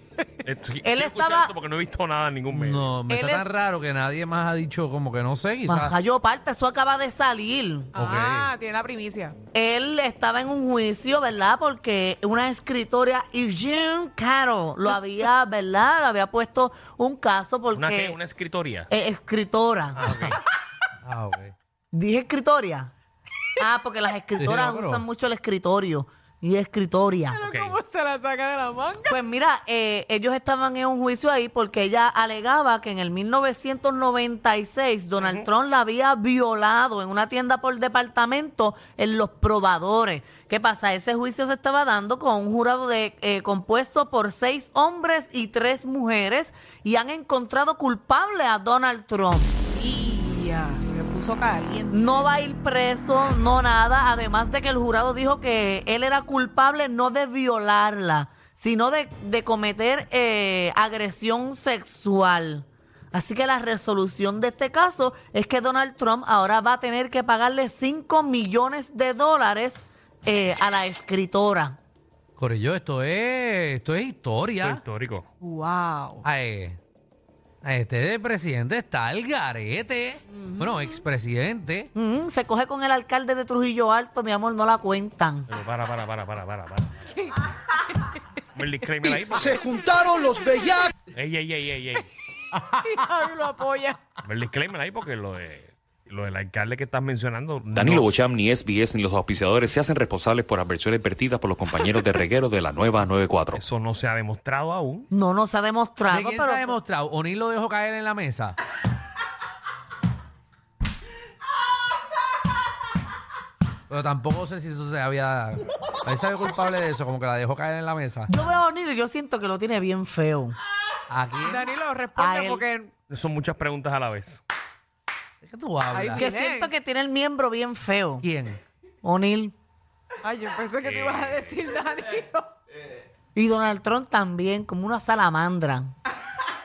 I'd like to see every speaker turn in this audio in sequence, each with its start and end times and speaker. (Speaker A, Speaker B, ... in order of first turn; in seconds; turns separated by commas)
Speaker A: 0.5-3.0, Speaker B: 0.8-1.5, Speaker C: 2.5-5.9, Speaker B: 3.1-3.5, Speaker B: 5.7-7.9, Speaker D: 7.9-9.4, Speaker C: 8.0-8.5, Speaker B: 9.5-18.2, Speaker A: 17.8-18.9, Speaker B: 18.9-20.0, Speaker A: 19.9-20.4, Speaker C: 20.0-20.4, Speaker C: 21.0-21.6, Speaker B: 21.9-22.9, Speaker B: 23.6-27.4, Speaker C: 24.4-25.1, Speaker D: 27.3-29.2, Speaker A: 27.4-27.8, Speaker B: 29.1-49.5, Speaker A: 35.2-35.5, Speaker D: 49.7-52.3, Speaker B: 51.9-71.8, Speaker C: 72.4-74.8, Speaker A: 74.6-75.3, Speaker D: 75.4-76.2, Speaker C: 76.2-76.8, Speaker C: 77.6-81.9, Speaker D: 80.3-81.0, Speaker B: 82.0-85.5, Speaker A: 85.5-87.0, Speaker D: 87.2-88.2, Speaker A: 88.5-89.6, Speaker D: 89.3-90.7, Speaker A: 91.1-92.1, Speaker D: 92.8-94.0, Speaker A: 94.2-98.2, Speaker E: 97.7-103.6, Speaker A: 103.5-105.1, Speaker B: 105.1-106.8, Speaker C: 106.1-108.6, Speaker C: 113.9-118.3, Speaker B: 118.3-120.6, Speaker C: 121.1-121.7, Speaker D: 121.4-122.9, Speaker B: 122.2-122.6, Speaker A: 123.1-124.4, Speaker C: 125.4-126.3, Speaker D: 125.9-126.7, Speaker B: 126.2-128.2, Speaker C: 128.2-128.6, Speaker B: 129.0-129.5, Speaker D: 130.2-132.5, Speaker A: 130.8-131.6, Speaker B: 133.3-135.9